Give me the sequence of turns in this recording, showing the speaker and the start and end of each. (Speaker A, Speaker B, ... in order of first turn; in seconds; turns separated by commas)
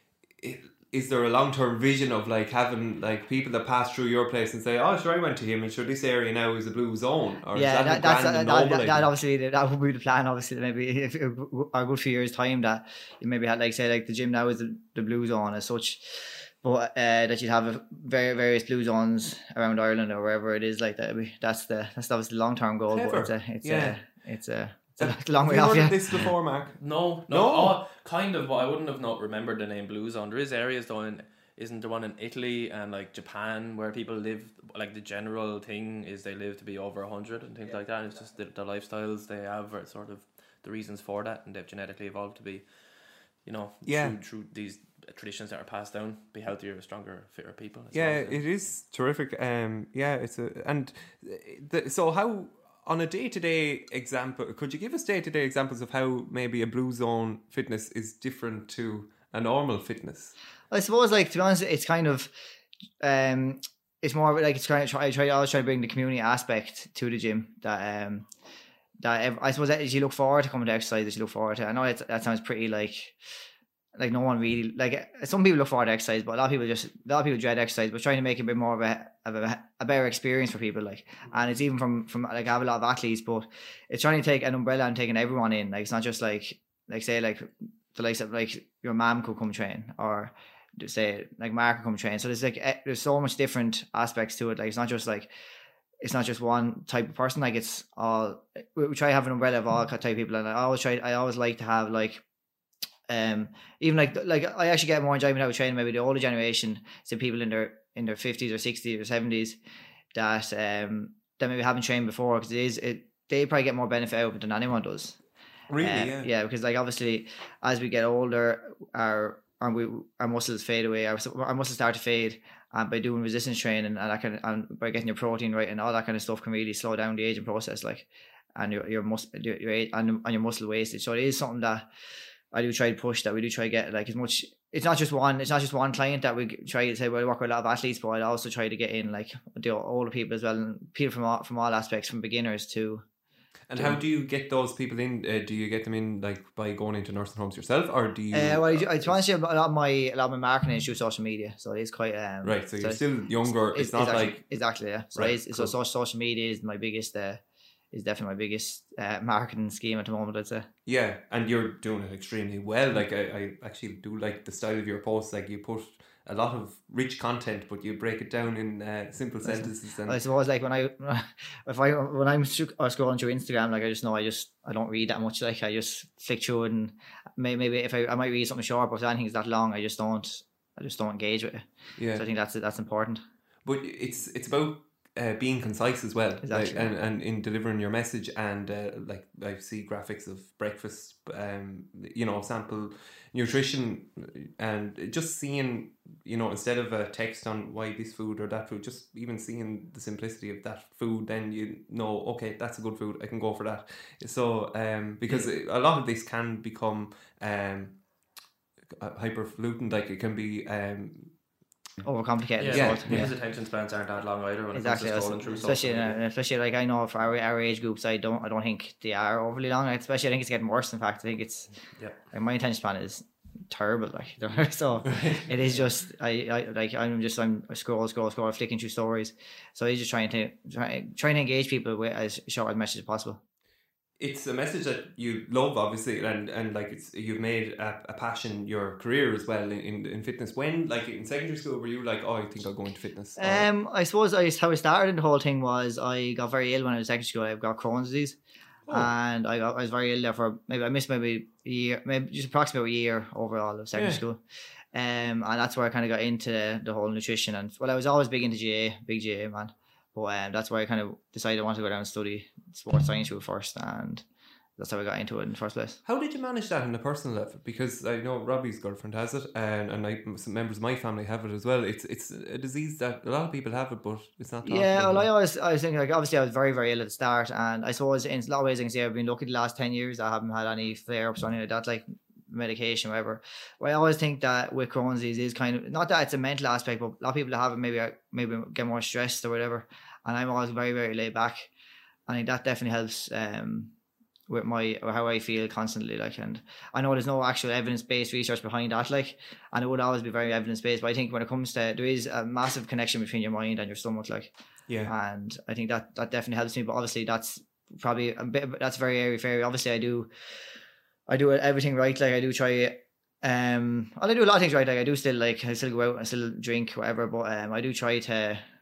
Speaker A: 0.4-9.1, Speaker B: 7.5-26.3, Speaker A: 22.9-24.0, Speaker A: 25.0-27.8, Speaker C: 26.8-48.5, Speaker A: 43.8-44.2, Speaker A: 47.9-60.3, Speaker B: 60.7-62.3, Speaker B: 63.0-68.3, Speaker B: 69.0-73.2, Speaker B: 74.0-95.3, Speaker B: 96.0-102.2, Speaker B: 103.1-109.6, Speaker B: 110.1-115.2, Speaker A: 115.7-116.3, Speaker B: 115.8-131.9, Speaker B: 132.5-143.0, Speaker A: 143.7-149.2, Speaker B: 148.3-160.7, Speaker A: 152.4-154.4, Speaker A: 155.2-155.7, Speaker A: 160.9-170.2, Speaker B: 169.4-183.2, Speaker A: 182.0-182.2, Speaker A: 183.7-208.1, Speaker B: 186.4-186.9, Speaker A: 208.9-211.4, Speaker B: 212.0-213.3, Speaker C: 212.6-216.2, Speaker A: 212.7-213.3, Speaker B: 214.7-233.4, Speaker A: 225.1-225.5, Speaker A: 234.2-243.7, Speaker B: 243.4-248.4, Speaker A: 248.9-249.1, Speaker B: 248.9-254.4, Speaker A: 253.9-254.2, Speaker B: 254.9-264.2, Speaker B: 264.8-266.0, Speaker A: 266.1-275.3, Speaker B: 274.6-291.7, Speaker B: 292.3-293.9, Speaker B: 294.5-304.5, Speaker B: 305.1-310.3, Speaker B: 311.3-318.6